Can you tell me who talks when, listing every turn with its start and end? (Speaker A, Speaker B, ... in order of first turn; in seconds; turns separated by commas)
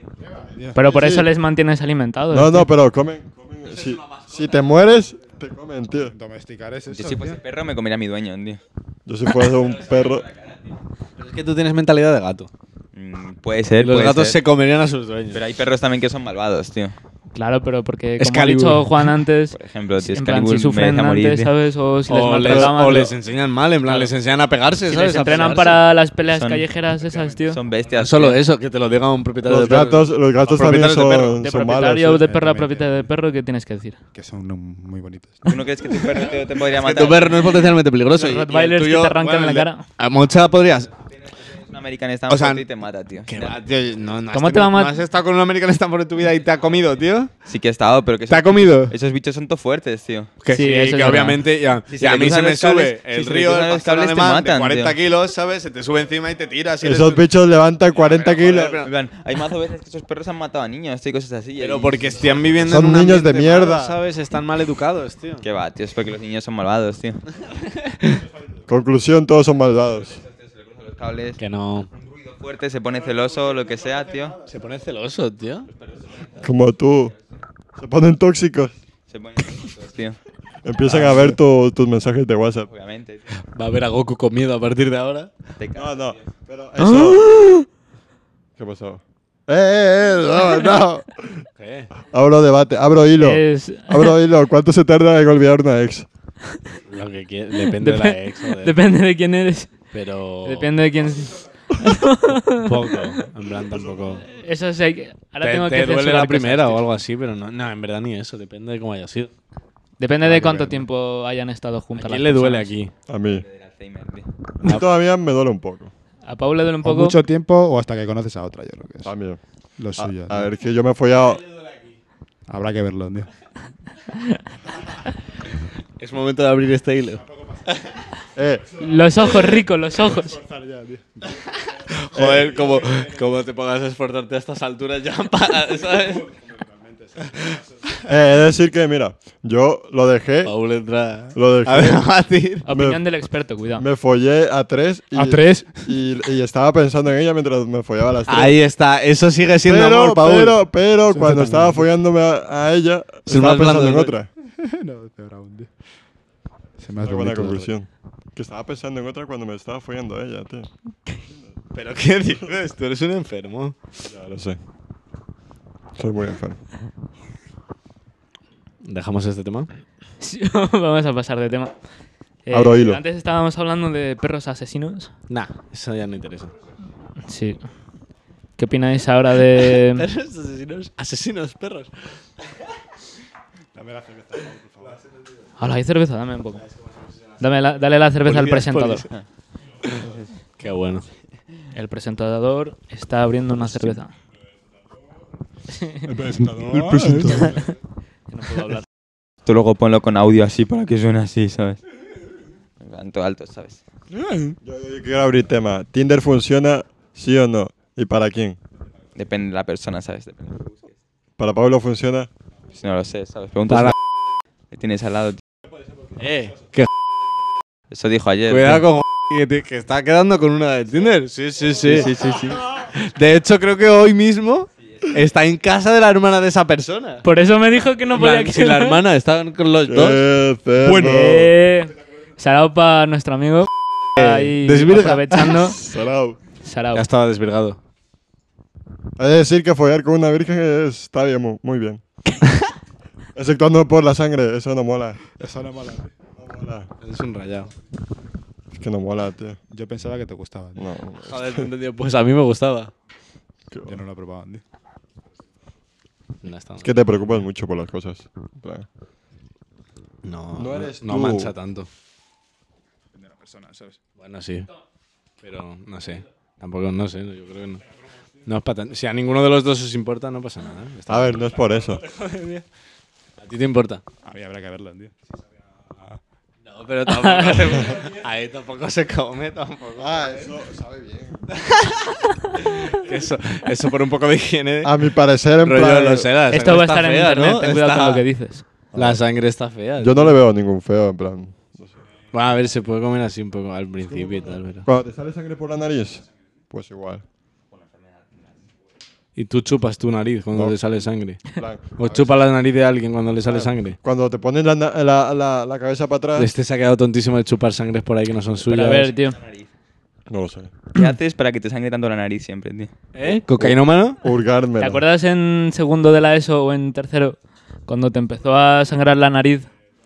Speaker A: 0.3-0.9, Speaker B: 0.7-2.7, Speaker C: 0.9-1.3, Speaker C: 2.3-6.1, Speaker A: 6.1-7.4, Speaker D: 6.9-8.6, Speaker C: 9.1-10.3, Speaker E: 11.2-12.5, Speaker D: 12.9-14.4, Speaker E: 13.8-15.4, Speaker D: 15.3-17.0, Speaker B: 17.3-23.1, Speaker E: 18.2-19.1, Speaker D: 19.5-21.5, Speaker E: 22.1-25.8, Speaker C: 22.5-22.8, Speaker B: 23.9-24.1, Speaker B: 24.9-27.6, Speaker D: 26.3-26.7, Speaker D: 27.5-28.4, Speaker E: 28.0-31.4, Speaker C: 29.4-32.3, Speaker B: 31.4-34.0, Speaker A: 32.2-33.1, Speaker A: 34.1-35.5, Speaker D: 35.5-37.7, Speaker E: 36.1-40.9, Speaker B: 38.1-39.9, Speaker D: 41.3-43.6, Speaker E: 42.3-42.6, Speaker E: 43.2-47.3, Speaker B: 44.3-45.0, Speaker D: 47.5-50.3, Speaker E: 48.3-49.0, Speaker E: 50.4-57.2, Speaker B: 50.5-51.4, Speaker D: 51.9-55.0, Speaker C: 56.8-58.8, Speaker E: 58.0-58.9, Speaker D: 58.8-62.6, Speaker E: 61.6-65.5, Speaker C: 62.6-64.0, Speaker D: 65.4-67.2, Speaker E: 67.8-68.2, Speaker C: 68.7-70.2, Speaker D: 70.2-71.4, Speaker E: 71.4-71.9, Speaker D: 72.0-74.4, Speaker E: 74.5-75.7, Speaker D: 75.8-76.5, Speaker C: 76.4-77.1, Speaker C: 77.8-78.7, Speaker D: 79.1-80.2, Speaker C: 80.6-82.7, Speaker E: 80.8-81.4, Speaker D: 82.7-83.3, Speaker E: 83.5-85.3, Speaker D: 85.6-86.2, Speaker C: 85.8-87.4, Speaker B: 86.8-87.6, Speaker C: 88.6-91.5, Speaker E: 91.6-91.9, Speaker C: 92.0-96.1, Speaker B: 93.2-94.1, Speaker E: 96.9-98.8, Speaker B: 97.7-99.8, Speaker E: 99.9-100.7, Speaker B: 100.5-103.0, Speaker E: 102.5-104.2, Speaker B: 104.3-106.8, Speaker E: 105.4-109.3, Speaker B: 110.0-112.7, Speaker E: 112.0-112.9, Speaker C: 113.1-113.4, Speaker D: 113.3-114.3, Speaker C: 114.6-115.9, Speaker B: 116.2-117.2, Speaker A: 116.8-119.1, Speaker C: 119.0-119.4, Speaker A: 119.8-120.5, Speaker C: 119.9-121.5, Speaker A: 122.5-123.3, Speaker E: 126.0-127.8, Speaker C: 128.3-128.7, Speaker B: 128.8-130.4, Speaker A: 130.0-131.4, Speaker E: 131.9-136.3, Speaker C: 132.1-132.6, Speaker A: 136.3-137.6, Speaker C: 138.1-140.5, Speaker E: 140.4-142.6, Speaker C: 141.3-142.0, Speaker B: 142.6-143.8, Speaker C: 142.7-143.1, Speaker C: 143.8-148.6, Speaker A: 145.1-145.9, Speaker E: 148.3-150.6, Speaker C: 149.7-154.3, Speaker A: 151.1-151.8, Speaker E: 153.3-154.1, Speaker A: 154.4-155.7, Speaker A: 156.8-157.7, Speaker C: 157.0-160.7, Speaker E: 161.7-163.8, Speaker C: 164.0-164.6, Speaker C: 166.0-166.6, Speaker E: 168.8-169.7, Speaker B: 170.2-171.8, Speaker B: 172.4-175.1, Speaker C: 172.5-173.0, Speaker E: 175.3-176.5, Speaker B: 177.3-177.6, Speaker B: 178.6-180.1, Speaker E: 180.0-181.9, Speaker A: 183.7-185.0, Speaker B: 185.6-186.6, Speaker B: 187.4-189.1, Speaker E: 188.2-189.1, Speaker E: 190.6-191.1, Speaker B: 191.7-194.1, Speaker E: 193.6-193.9, Speaker B: 195.7-196.1, Speaker A: 196.0-197.7, Speaker C: 196.7-197.6, Speaker E: 197.0-197.3, Speaker B: 198.3-198.8, Speaker D: 199.4-201.8, Speaker D: 202.8-203.8, Speaker E: 204.1-204.5, Speaker A: 204.2-204.5, Speaker C: 204.6-208.6, Speaker D: 209.2-210.9, Speaker C: 211.4-212.3, Speaker D: 212.7-213.9, Speaker E: 213.7-213.9, Speaker D: 214.7-215.4, Speaker E: 216.2-216.9, Speaker D: 217.9-218.8, Speaker E: 218.5-227.2, Speaker D: 221.8-222.6, Speaker B: 227.2-229.0, Speaker E: 228.1-230.2, Speaker C: 229.9-231.5, Speaker B: 230.8-235.8, Speaker E: 234.2-235.8, Speaker C: 235.6-236.4, Speaker B: 236.6-237.0, Speaker E: 236.9-237.8, Speaker C: 239.2-242.0, Speaker C: 243.3-245.2, Speaker A: 245.4-246.1, Speaker C: 246.4-246.9, Speaker E: 247.0-247.7, Speaker C: 248.7-249.6, Speaker A: 249.7-250.9, Speaker C: 250.8-251.7, Speaker E: 251.2-252.9, Speaker C: 253.7-254.0, Speaker A: 253.8-254.6, Speaker E: 256.4-256.9, Speaker C: 256.8-258.9, Speaker E: 260.2-261.9, Speaker C: 260.5-261.5, Speaker A: 263.2-264.0, Speaker E: 264.2-264.7, Speaker E: 265.4-267.8, Speaker E: 268.4-271.5, Speaker C: 271.1-272.0, Speaker E: 272.1-272.6, Speaker E: 273.4-274.0, Speaker A: 274.2-275.1, Speaker E: 276.6-280.5, Speaker B: 277.2-277.6, Speaker C: 280.0-281.5, Speaker E: 281.6-282.0, Speaker E: 282.6-285.0, Speaker C: 284.8-286.3, Speaker E: 285.6-288.2, Speaker B: 286.5-288.6, Speaker C: 288.9-289.2, Speaker E: 288.9-290.3, Speaker C: 290.0-292.0, Speaker E: 292.3-294.9, Speaker C: 294.8-297.2, Speaker E: 299.4-304.0, Speaker C: 300.5-300.8, Speaker C: 301.4-302.4, Speaker C: 303.5-306.5, Speaker E: 306.4-309.1, Speaker B: 308.7-309.4, Speaker D: 309.4-309.6, Speaker C: 310.3-310.7, Speaker D: 310.9-312.9, Speaker E: 313.1-314.2, Speaker C: 313.2-315.0, Speaker B: 314.8-319.7